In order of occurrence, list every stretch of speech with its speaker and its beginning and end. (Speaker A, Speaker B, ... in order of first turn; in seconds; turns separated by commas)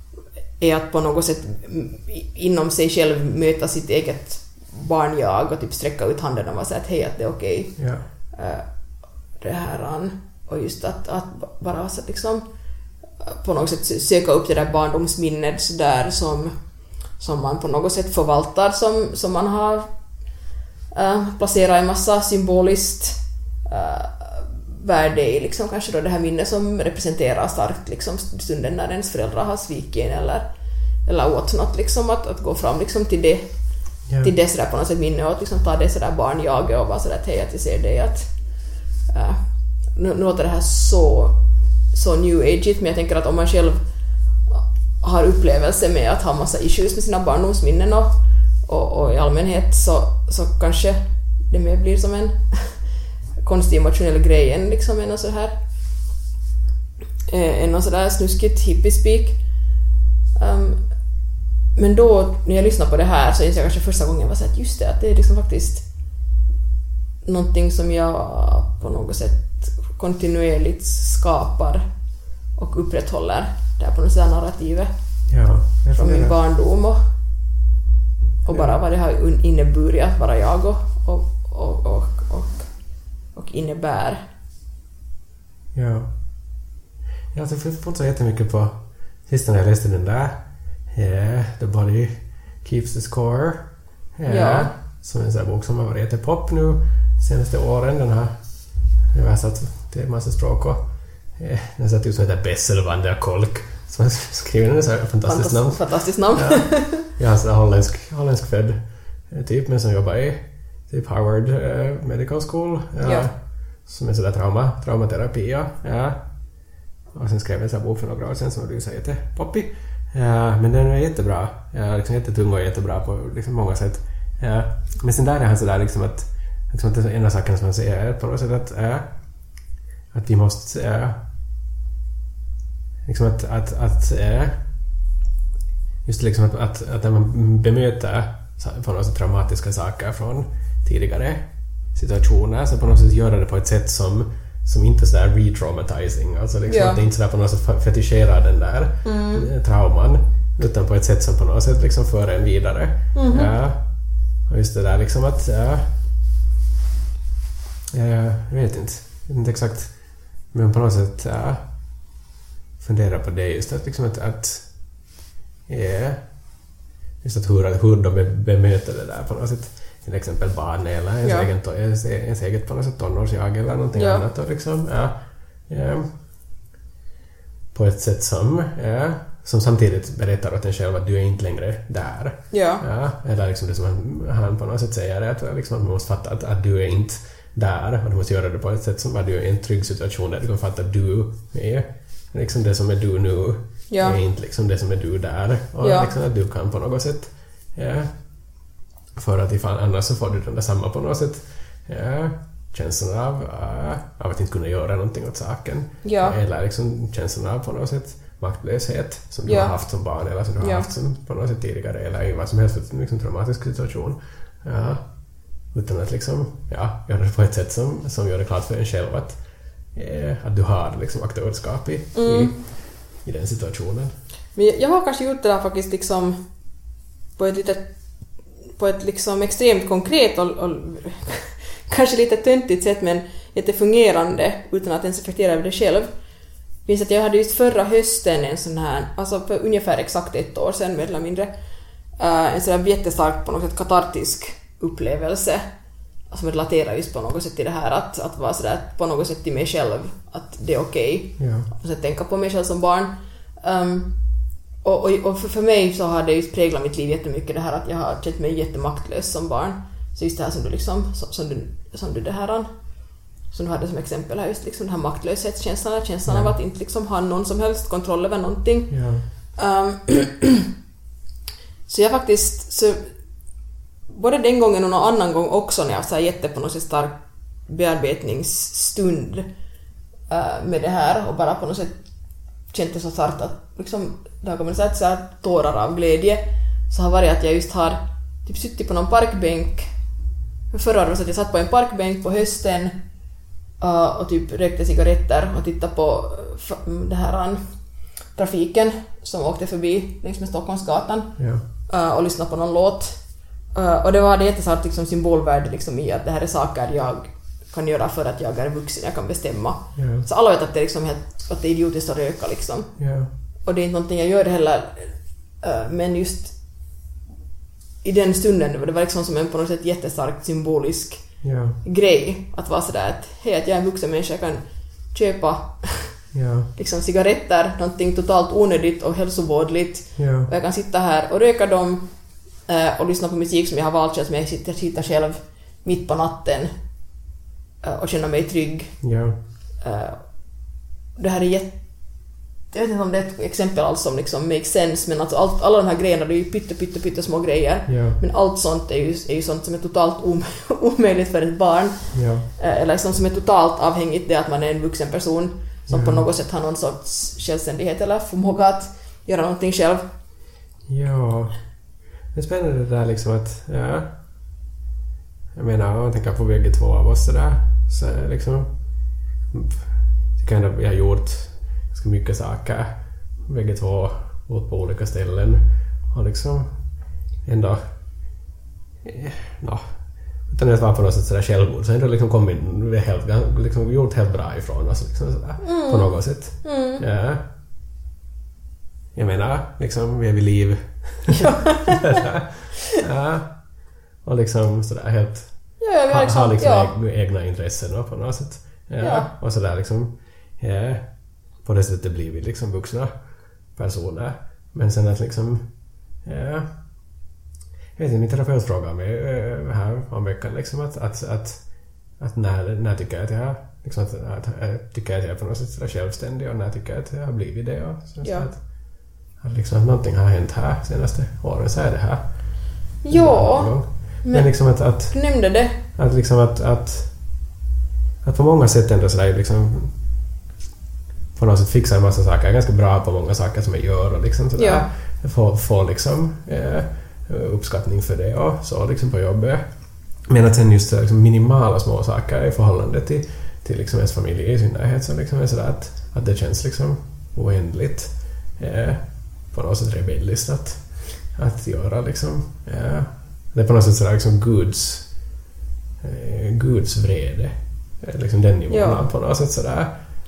Speaker A: 0.6-7.8, Speaker B: 7.8-8.0, Speaker A: 8.3-8.7, Speaker A: 9.4-12.4, Speaker A: 13.2-16.6, Speaker A: 17.2-19.9, Speaker A: 20.9-30.5, Speaker A: 31.1-33.5, Speaker A: 34.2-38.3, Speaker A: 39.1-39.4, Speaker A: 40.0-41.4, Speaker A: 41.9-43.8, Speaker A: 44.5-48.1, Speaker A: 48.7-52.8, Speaker A: 53.4-55.5, Speaker A: 57.3-59.4, Speaker A: 60.4-60.8, Speaker A: 61.8-65.8, Speaker A: 67.2-71.8, Speaker A: 72.6-74.9, Speaker B: 75.3-76.3, Speaker A: 76.0-77.0, Speaker A: 78.5-82.7, Speaker B: 78.5-78.8, Speaker A: 83.3-84.2, Speaker B: 85.8-86.1, Speaker B: 87.3-88.8, Speaker B: 89.3-90.4, Speaker B: 90.9-92.1, Speaker B: 92.6-93.7, Speaker B: 94.2-98.3, Speaker A: 94.3-94.7, Speaker B: 99.1-100.8, Speaker B: 101.4-113.3, Speaker A: 105.3-107.1, Speaker A: 113.0-113.3, Speaker B: 113.9-116.2, Speaker B: 117.1-129.1, Speaker B: 130.1-131.2, Speaker B: 133.1-134.6, Speaker B: 136.1-141.4, Speaker B: 141.9-153.8, Speaker A: 146.7-147.0, Speaker A: 149.0-149.5, Speaker A: 153.1-153.5, Speaker B: 154.5-155.9, Speaker B: 157.9-159.9, Speaker B: 160.5-161.6, Speaker B: 162.8-164.7, Speaker B: 165.7-166.2, Speaker B: 167.2-175.1, Speaker A: 171.2-171.5, Speaker A: 173.9-174.3, Speaker B: 175.7-176.1, Speaker B: 177.7-198.1, Speaker A: 182.5-182.8, Speaker A: 193.9-194.2, Speaker A: 195.8-196.1, Speaker B: 199.2-215.0, Speaker A: 206.0-206.4, Speaker A: 209.5-209.8, Speaker A: 210.6-210.9, Speaker B: 215.7-219.4, Speaker B: 219.9-222.6, Speaker A: 222.2-222.5, Speaker B: 223.2-224.1, Speaker A: 224.6-226.4, Speaker A: 227.4-227.9, Speaker A: 228.8-236.1, Speaker A: 236.9-241.5, Speaker A: 242.2-245.7, Speaker A: 246.3-254.1, Speaker B: 251.4-251.7, Speaker A: 254.8-262.7, Speaker A: 263.5-269.0, Speaker B: 266.3-266.5, Speaker B: 268.9-269.2, Speaker A: 269.6-270.7, Speaker A: 271.9-273.1, Speaker A: 274.1-279.5, Speaker A: 280.3-282.0, Speaker A: 282.7-289.9, Speaker A: 290.7-293.0, Speaker A: 293.8-297.6, Speaker A: 298.3-301.4, Speaker B: 301.4-301.6, Speaker A: 301.9-303.2, Speaker A: 303.8-312.9, Speaker B: 310.0-310.2, Speaker B: 313.0-313.3, Speaker A: 313.7-316.6, Speaker A: 318.0-321.2, Speaker B: 321.4-321.8, Speaker A: 321.8-326.1, Speaker B: 326.3-326.7, Speaker A: 326.8-332.1, Speaker B: 330.2-330.5, Speaker A: 332.7-336.7, Speaker A: 337.8-339.0, Speaker B: 339.0-339.4, Speaker A: 339.8-340.2, Speaker A: 341.2-341.8, Speaker A: 342.7-360.1, Speaker B: 347.9-348.2, Speaker B: 352.1-352.5, Speaker B: 355.9-356.2, Speaker B: 360.9-361.6, Speaker B: 362.3-364.1, Speaker B: 365.6-368.7, Speaker B: 369.5-372.9, Speaker B: 373.4-375.6, Speaker B: 376.1-376.7, Speaker B: 377.4-377.8, Speaker B: 379.0-379.8, Speaker B: 380.5-387.4, Speaker A: 385.6-387.0, Speaker B: 389.1-393.5, Speaker A: 391.3-392.3, Speaker B: 394.2-395.5, Speaker A: 395.8-396.9, Speaker B: 396.1-401.0, Speaker A: 399.0-399.3, Speaker B: 401.6-403.1, Speaker B: 403.8-405.6, Speaker B: 406.2-406.7, Speaker B: 408.0-411.6, Speaker B: 412.2-418.6, Speaker A: 418.2-418.5, Speaker B: 419.4-422.2, Speaker A: 423.0-425.8, Speaker B: 423.1-425.2, Speaker B: 425.9-427.1, Speaker B: 428.2-429.9, Speaker B: 431.4-439.6, Speaker A: 434.6-434.9, Speaker B: 440.3-455.1, Speaker B: 456.0-459.9, Speaker A: 458.7-459.1